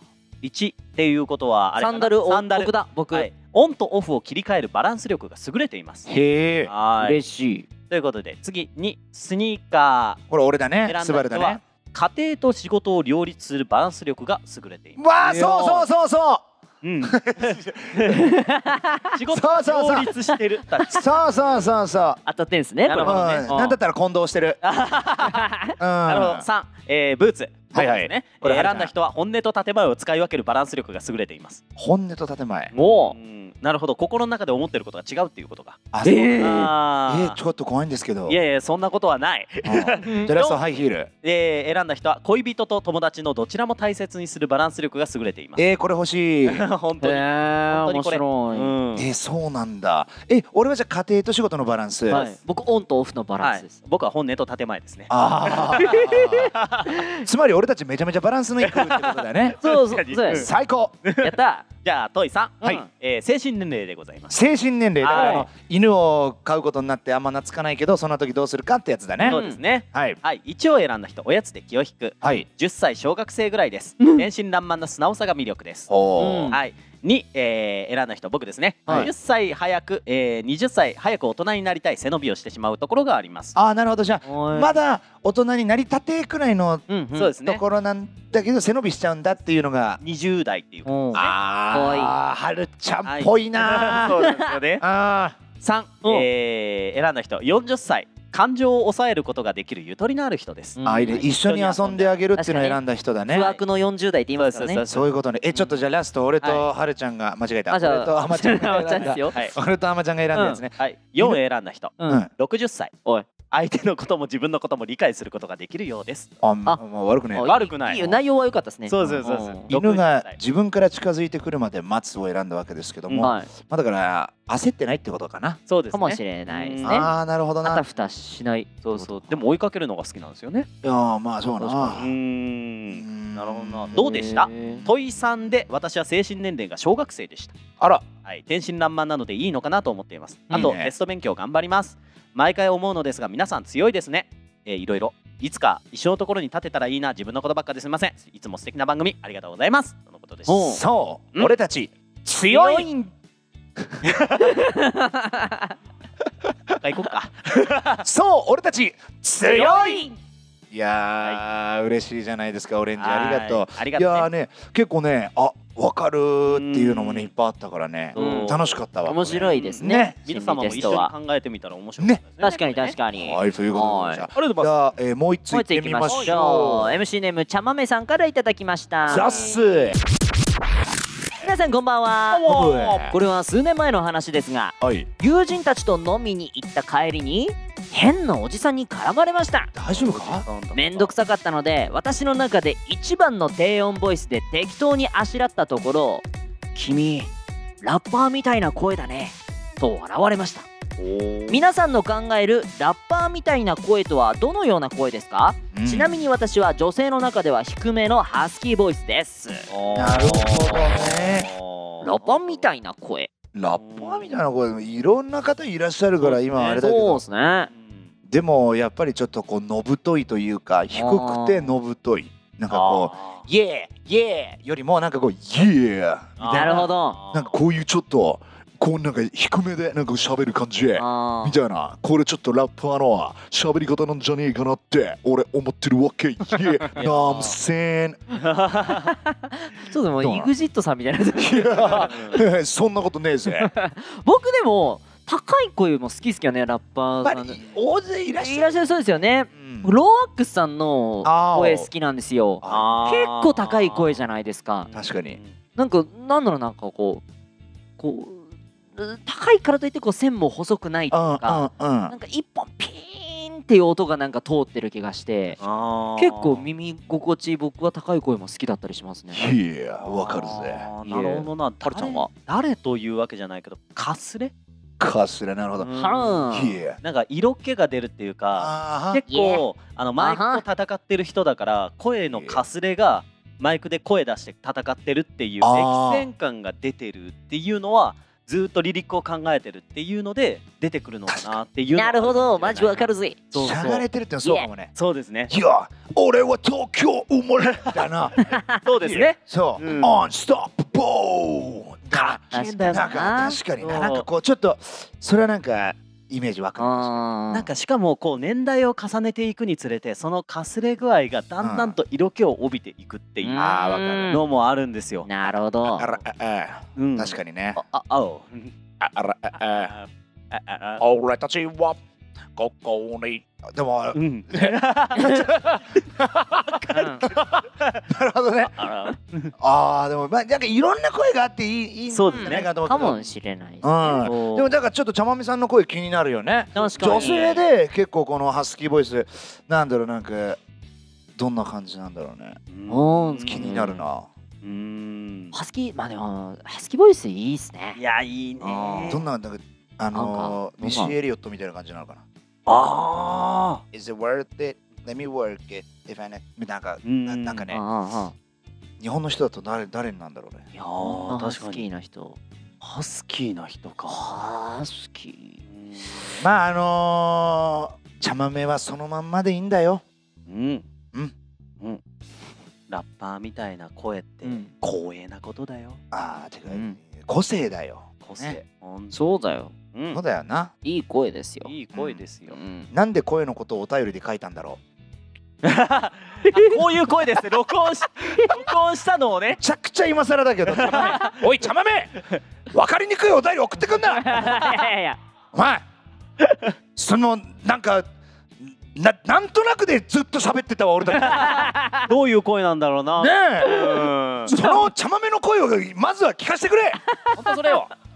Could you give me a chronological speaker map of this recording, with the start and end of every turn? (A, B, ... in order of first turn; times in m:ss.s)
0:00.4-0:06.1 A
0:01.8-0:03.3 B
0:06.1-0:06.7 C
0:06.7-0:07.2 A
0:07.0-0:07.7 B
0:07.9-0:10.2 A
0:10.3-0:11.6 C
0:10.9-0:15.0 A
0:15.0-0:16.4 C
0:15.2-0:15.9 B
0:16.8-0:18.4 A
0:17.0-0:17.9 C
0:18.2-0:19.2 B
0:19.1-0:21.8 A
0:19.3-0:20.1 C
0:20.9-0:22.2 C
0:22.3-0:23.8 B
0:22.8-0:23.8 A
0:23.0-0:24.6 C
0:24.6-0:25.5 A
0:25.3-0:25.6 B
0:25.8-0:26.5 C
0:26.1-0:31.6 A
0:27.7-0:28.9 C
0:31.8-0:32.7 C
0:32.7-0:33.2 B
0:33.0-0:35.8 A
0:35.9-0:38.4 C
0:36.0-0:36.7 B
0:36.4-0:37.4 A
0:38.3-0:45.6 A
0:39.6-0:41.1 C
0:40.0-0:40.3 B
0:45.6-0:46.6 C
0:46.4-0:49.1 A
0:47.0-0:48.7 B
0:48.9-0:52.2 C
0:52.1-0:53.8 B
0:52.1-0:52.4 A
0:53.4-0:57.0 A
0:55.1-0:56.5 C
0:55.8-0:56.4 B
0:57.0-0:59.6 C
0:58.6-1:00.5 A
0:59.6-1:00.5 B
1:00.2-1:01.0 C
1:01.0-1:04.4 A
1:01.2-1:01.7 B
1:04.3-1:09.4 C
1:05.0-1:05.5 A
1:05.1-1:05.5 B
1:09.2-1:09.6 B
1:09.3-1:23.6 A
1:09.9-1:10.2 C
1:14.0-1:14.3 B
1:15.9-1:16.5 C
1:16.2-1:16.6 B
1:23.6-1:30.0 C
1:24.2-1:24.8 B
1:26.9-1:27.3 B
1:27.1-1:27.6 A
1:30.0-1:31.4 A
1:30.8-1:32.2 B
1:31.1-1:34.3 C
1:33.0-1:34.8 A
1:34.2-1:34.5 B
1:34.8-1:35.4 C
1:35.6-1:42.2 A
1:36.0-1:36.3 B
1:40.8-1:41.3 B
1:40.8-1:43.6 C
1:42.4-1:44.8 B
1:44.4-1:45.8 A
1:44.9-1:51.4 C
1:46.4-1:46.7 B
1:47.7-1:49.5 B
1:50.3-1:50.6 B
1:50.8-1:52.9 A
1:52.0-1:52.3 B
1:53.5-1:56.3 A
1:56.4-1:58.2 C
1:56.7-1:59.7 B
1:57.4-1:58.2 A
1:58.9-2:00.4 A
1:59.2-2:05.6 C
2:03.2-2:03.5 B
2:05.7-2:07.1 A
2:05.9-2:07.1 B
2:06.8-2:07.8 C
2:07.6-2:09.4 B
2:08.8-2:10.7 A
2:10.8-2:12.1 C
2:11.6-2:12.1 B
2:12.0-2:17.6 A
2:12.9-2:14.2 C
2:13.9-2:14.9 B
2:17.8-2:18.1 C
2:18.2-2:30.6 A
2:20.5-2:20.9 C
2:30.5-2:30.8 B
2:30.6-2:32.9 C
2:32.5-2:33.1 B
2:34.1-2:34.4 C
2:34.4-2:35.7 B
2:36.8-2:38.0 A
2:38.0-2:40.1 C
2:39.5-2:40.2 B
2:40.7-2:50.2 C
2:43.0-2:44.3 A
2:46.5-2:47.3 A
2:48.1-2:53.0 A
2:48.2-2:51.1 B
2:52.4-2:54.3 B
2:53.1-2:57.0 C
2:54.4-2:55.0 A
2:55.5-2:59.6 B
2:56.0-2:56.4 A
2:59.1-2:59.6 A
2:59.1-3:00.0 C
3:01.4-3:02.5 B
3:02.3-3:03.1 A
3:02.4-3:03.2 C
3:03.1-3:09.7 B
3:04.8-3:05.1 C
3:09.7-3:10.5 C
3:09.9-3:11.2 A
3:10.7-3:20.7 B
3:21.0-3:21.6 A
3:21.5-3:29.7 B
3:25.7-3:26.2 C
3:29.7-3:32.7 A
3:30.0-3:31.5 C
3:30.4-3:31.2 B
3:32.0-3:33.3 B
3:33.5-3:37.2 C
3:33.7-3:34.4 A
3:36.2-3:36.8 A
3:36.7-3:37.7 B
3:37.7-3:38.1 A
3:38.3-3:58.2 C
3:40.9-3:41.8 B
3:42.7-3:43.4 A
3:46.4-3:47.5 A
3:46.5-3:47.2 B
3:51.0-3:51.6 B
3:56.5-3:57.6 A
3:58.4-3:59.1 A
3:59.0-4:02.4 B
4:00.2-4:00.5 C
4:01.4-4:03.7 C
4:01.8-4:02.4 A
4:03.6-4:07.6 B
4:07.2-4:08.8 C
4:08.4-4:14.9 B
4:09.5-4:09.9 C
4:11.2-4:11.9 C
4:12.6-4:13.0 C
4:12.6-4:14.2 A
4:14.8-4:15.6 A
4:14.9-4:15.4 C
4:15.8-4:17.2 B
4:18.0-4:25.6 B
4:21.1-4:22.2 C
4:25.6-4:26.7 A
4:26.2-4:29.5 B
4:29.3-4:30.9 C
4:30.0-4:34.5 A
4:31.0-4:32.3 B
4:35.0-4:35.9 C
4:35.8-4:36.4 A
4:36.0-4:36.8 B
4:36.5-4:37.0 C
4:37.0-4:53.9 A
4:38.6-4:39.2 C
4:39.3-4:39.6 B
4:40.2-4:40.6 B
4:42.3-4:42.6 C
4:45.6-4:46.3 C
4:51.3-4:51.6 C
4:51.9-4:54.7 B
4:53.6-4:54.9 C
4:55.0-4:55.5 A
4:55.5-5:07.2 C
4:57.6-4:58.1 A
4:58.4-4:58.7 B
4:58.8-5:00.2 A
5:02.1-5:03.2 A
5:02.5-5:03.6 B
5:03.8-5:04.3 A
5:06.8-5:07.7 B
5:07.5-5:15.3 A
5:11.6-5:12.0 C
5:13.4-5:14.4 B
5:13.5-5:14.4 C
5:15.2-5:16.1 B
5:15.9-5:16.2 A
5:15.9-5:17.8 C
5:17.0-5:18.7 A
5:19.0-5:19.9 C
5:19.6-5:21.0 A
5:21.0-5:22.0 C
5:22.6-5:28.7 C
5:24.1-5:28.0 A
5:27.0-5:27.2 B
5:28.6-5:29.5 A
5:29.6-5:33.2 C
5:32.1-5:32.6 A
5:32.3-5:34.8 B
5:33.8-5:40.6 C
5:36.8-5:37.6 A
5:36.8-5:37.6 B
5:41.4-5:42.6 C
5:42.7-5:44.0 A
5:42.9-5:43.9 B
5:43.4-5:44.3 C
5:44.6-5:45.6 A
5:45.5-5:48.0 B
5:48.0-5:49.2 A
5:48.6-5:49.2 B
5:49.1-5:52.2 C
5:50.1-5:51.2 B
5:52.7-5:53.8 A
5:53.9-5:57.8 C
5:57.0-5:57.7 A
5:57.7-5:58.4 B
5:59.0-6:00.7 C
6:00.8-6:01.9 A
6:00.8-6:02.4 B
6:02.8-6:04.4 A
6:04.1-6:05.6 B
6:05.6-6:06.2 A
6:06.4-6:10.0 C
6:10.5-6:10.9 A
6:12.9-6:16.0 A
6:14.4-6:14.7 B
6:16.1-6:18.6 C
6:16.7-6:17.0 B
6:18.2-6:19.2 A
6:19.1-6:19.7 B
6:19.9-6:20.2 A
6:20.1-6:20.7 C
6:20.8-6:21.7 B
6:21.6-6:22.6 A
6:21.9-6:22.2 C
6:22.5-6:22.9 B
6:22.9-6:24.8 C
6:25.6-6:29.6 A
6:26.4-6:26.8 B
6:28.3-6:28.6 B
6:29.5-6:34.9 C
6:30.7-6:31.5 A
6:30.9-6:31.3 B
6:34.1-6:35.2 B
6:35.5-6:35.8 C
6:37.0-6:38.1 C
6:38.6-6:41.6 C
6:41.2-6:42.1 B
6:41.2-6:44.5 A
6:43.2-6:43.9 C
6:43.6-6:44.0 B
6:44.5-6:47.0 C
6:44.5-6:44.9 B
6:47.0-6:47.8 B
6:47.4-6:47.9 A